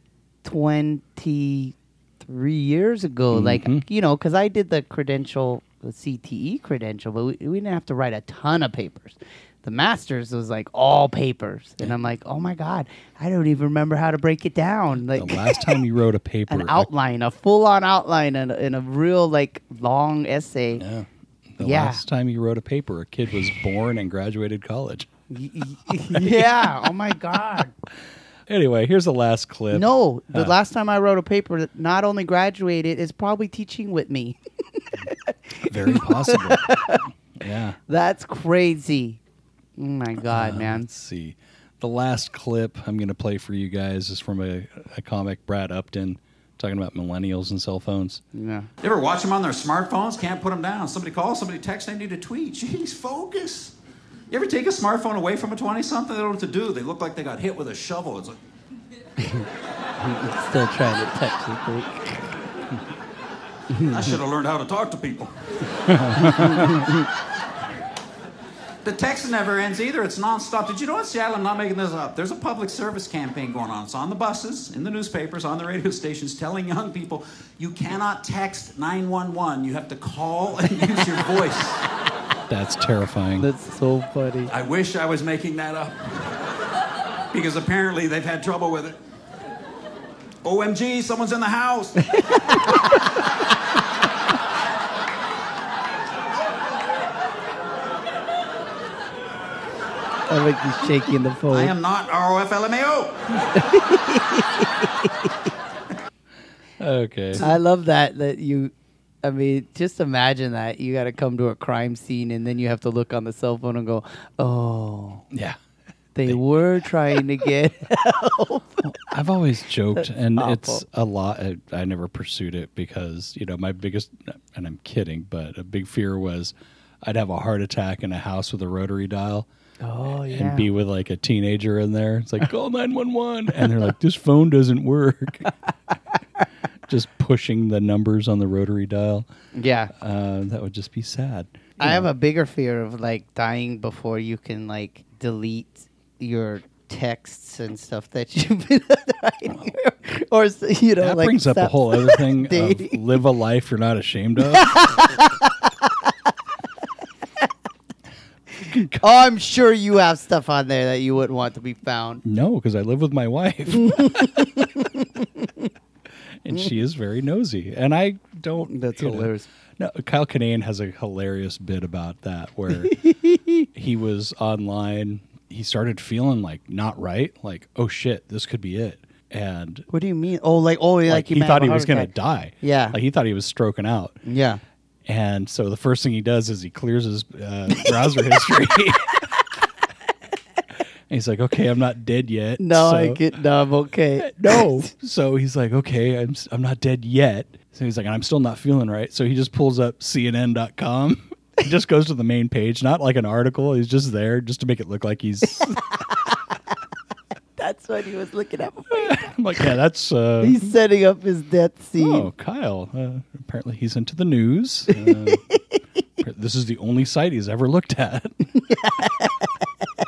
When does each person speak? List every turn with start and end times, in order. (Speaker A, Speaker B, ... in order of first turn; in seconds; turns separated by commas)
Speaker A: 0.4-15.8, Speaker B: 3.3-3.9, Speaker B: 15.1-16.9, Speaker A: 16.5-20.8, Speaker B: 20.8-25.1, Speaker A: 21.6-22.0, Speaker A: 25.3-27.7, Speaker B: 26.1-26.7, Speaker B: 28.5-30.5, Speaker A: 29.7-37.0, Speaker B: 35.7-37.8, Speaker A: 37.9-39.2, Speaker A: 39.8-40.9, Speaker B: 40.3-48.2, Speaker A: 48.3-48.7, Speaker C: 48.8-53.8, Speaker C: 54.3-58.4, Speaker A: 59.2-59.5, Speaker A: 60.0-62.3, Speaker A: 63.7-64.1, Speaker C: 63.8-66.0, Speaker B: 65.9-66.8, Speaker A: 66.1-67.1, Speaker C: 68.8-81.8, Speaker B: 82.5-83.5, Speaker A: 83.4-84.5, Speaker C: 84.5-86.5, Speaker C: 87.3-89.0, Speaker C: 90.4-92.0, Speaker A: 92.0-92.9, Speaker A: 100.3-101.7, Speaker C: 101.5-103.2, Speaker A: 103.5-105.3, Speaker B: 106.8-107.5, Speaker A: 107.4-115.3, Speaker B: 115.3-115.6, Speaker A: 116.2-119.1, Speaker B: 118.8-129.5, Speaker A: 120.0-120.8, Speaker A: 129.8-130.7, Speaker B: 130.3-135.5, Speaker B: 136.9-139.3, Speaker A: 139.5-139.9, Speaker B: 139.9-142.1, Speaker A: 141.8-153.1, Speaker B: 151.0-155.0, Speaker A: 154.5-156.1, Speaker B: 158.7-159.0, Speaker A: 158.7-162.2, Speaker B: 162.2-164.6, Speaker A: 163.9-165.0, Speaker B: 166.4-173.1, Speaker A: 168.7-169.5, Speaker A: 172.9-173.7, Speaker B: 173.8-179.9, Speaker A: 179.9-183.0, Speaker B: 181.1-184.2, Speaker A: 184.2-184.6, Speaker B: 185.1-189.3, Speaker B: 191.1-193.2, Speaker A: 192.6-194.9, Speaker B: 194.2-205.8, Speaker A: 207.6-209.3, Speaker B: 208.9-210.7, Speaker A: 210.4-212.3, Speaker B: 212.0-215.5, Speaker A: 214.9-215.6, Speaker B: 216.2-218.5, Speaker A: 218.6-219.5